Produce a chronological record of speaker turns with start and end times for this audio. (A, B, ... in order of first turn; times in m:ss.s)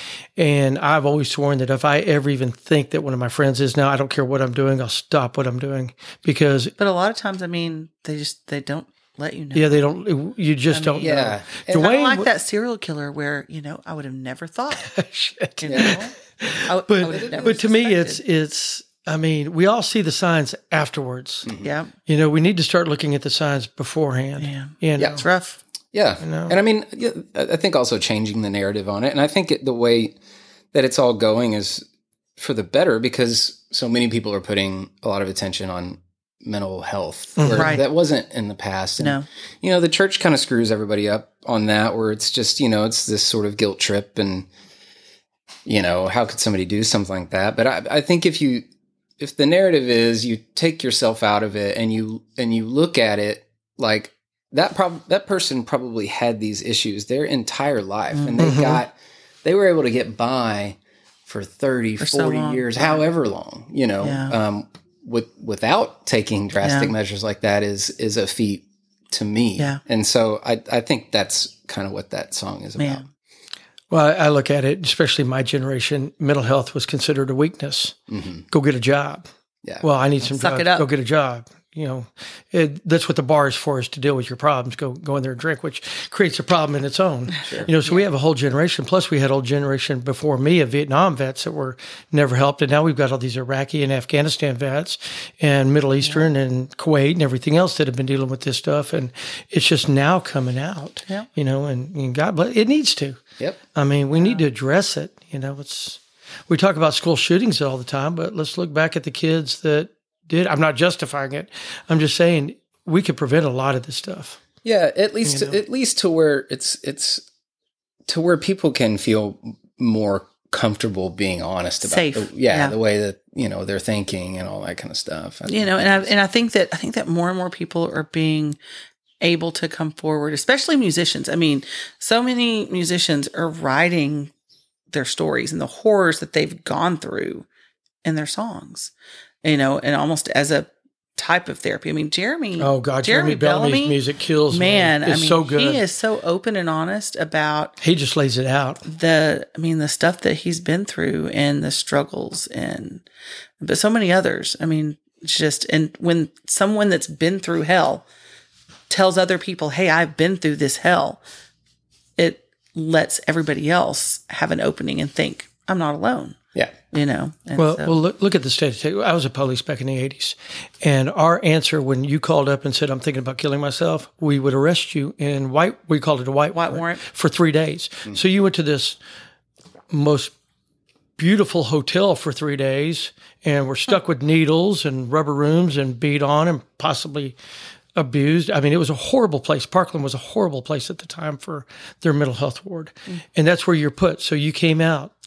0:00.4-0:06.7 A
0:06.8-0:09.8 B
0:09.5-0:12.3 A
0:10.7-0:14.9 B
0:11.0-0:11.9 C
0:14.8-0:21.5 A
0:15.6-0:16.1 B
0:15.7-0:16.1 C
0:16.6-0:18.2 B
0:17.1-0:17.5 C
0:21.5-0:21.7 C
0:21.6-0:21.9 B
0:22.1-0:25.2 A
0:24.4-0:25.6 B
0:25.9-0:30.2 C
0:26.2-0:26.6 A
0:30.7-0:31.8 C
0:32.4-0:44.5 C
0:37.4-0:37.8 A
0:37.5-0:37.8 B
0:39.0-0:39.3 B
0:45.7-0:48.7 C
0:49.2-1:13.0 C
0:58.1-0:58.6 B
0:58.4-0:58.8 A
1:02.0-1:03.0 B
1:04.0-1:04.4 B
1:06.6-1:06.9 B
1:12.8-1:13.0 B
1:13.9-1:18.0 A
1:18.1-1:18.4 C
1:18.5-1:19.3 A
1:19.8-1:43.2 A
1:20.3-1:20.9 B
1:27.5-1:28.0 B
1:43.8-1:54.4 A
1:44.2-1:44.4 B
1:54.6-1:57.2 C
1:55.2-1:55.6 A
1:58.1-2:06.1 C
2:01.8-2:02.8 B
2:05.5-2:08.6 B
2:09.2-2:14.3 B
2:14.9-2:17.5 B
2:18.0-2:18.9 B
2:19.4-2:24.0 B
2:22.6-2:25.8 A
2:24.5-2:27.8 B
2:27.8-2:28.8 A
2:28.9-2:33.0 B
2:33.6-2:38.0 B
2:38.9-2:41.2 B
2:42.2-2:46.4 B
2:46.9-2:48.0 B
2:47.6-2:59.0 A
2:56.5-2:57.0 B
2:59.9-3:00.3 A
3:01.2-3:07.4 A
3:08.0-3:15.1 A